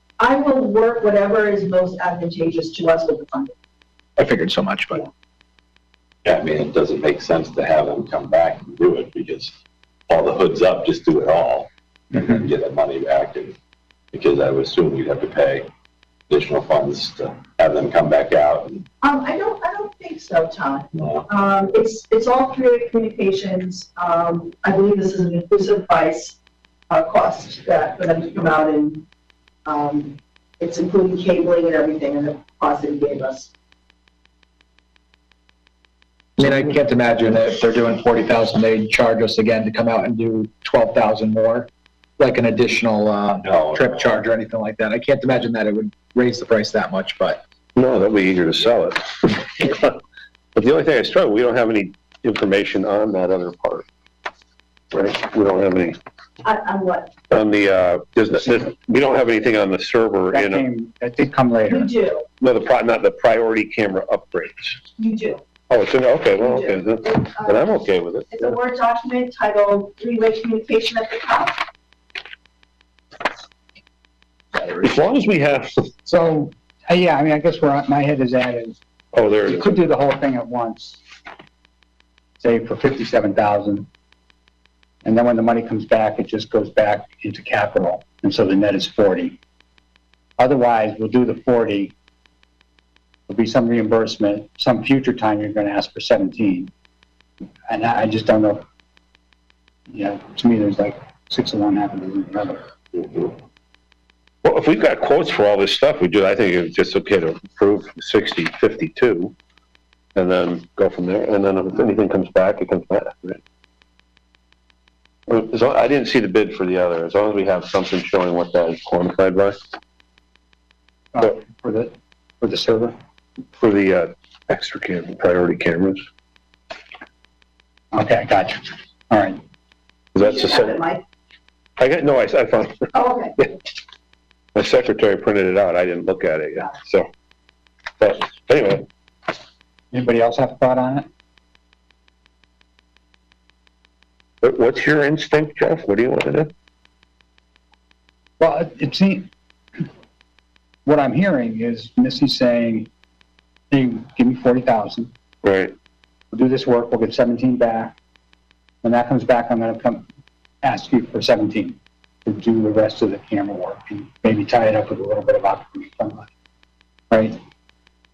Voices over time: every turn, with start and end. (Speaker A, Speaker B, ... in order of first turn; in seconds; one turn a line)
Speaker A: 0.2-3.5
Speaker B: 4.2-5.1
Speaker C: 6.2-9.5
Speaker C: 10.1-13.6
Speaker C: 14.1-15.7
Speaker C: 16.3-18.8
Speaker A: 19.0-26.4
Speaker C: 20.9-21.3
Speaker A: 26.9-29.1
Speaker A: 29.7-33.5
Speaker B: 36.4-41.7
Speaker B: 42.2-47.4
Speaker C: 43.4-44.1
Speaker D: 47.8-50.0
Speaker D: 50.5-53.9
Speaker D: 54.9-56.0
Speaker A: 56.4-57.2
Speaker D: 57.3-60.7
Speaker E: 60.3-61.9
Speaker A: 61.7-62.3
Speaker D: 62.4-64.8
Speaker A: 65.0-65.4
Speaker D: 65.7-68.6
Speaker A: 66.4-67.8
Speaker A: 68.3-71.6
Speaker D: 74.8-75.9
Speaker E: 76.1-78.8
Speaker D: 79.1-79.9
Speaker E: 79.4-81.0
Speaker E: 82.4-83.9
Speaker E: 85.0-89.4
Speaker E: 90.4-91.9
Speaker E: 93.3-96.7
Speaker E: 97.7-98.6
Speaker E: 99.9-102.6
Speaker D: 104.4-109.3
Speaker D: 110.2-113.4
Speaker D: 115.3-119.6
Speaker E: 121.1-123.0
Speaker D: 123.6-126.0
Speaker E: 127.9-129.4
Speaker D: 130.2-130.8
Speaker A: 130.2-131.0
Speaker D: 131.8-132.9
Speaker A: 132.9-133.4
Speaker D: 134.6-137.1
Speaker D: 138.0-138.9
Speaker E: 139.9-141.1
Speaker D: 144.4-146.5
Speaker E: 148.4-149.3
Speaker E: 150.9-152.9
Speaker E: 153.7-155.1
Speaker D: 155.4-155.7
Speaker E: 156.3-158.0
Speaker E: 158.8-160.1
Speaker E: 160.6-166.3
Speaker E: 167.1-167.4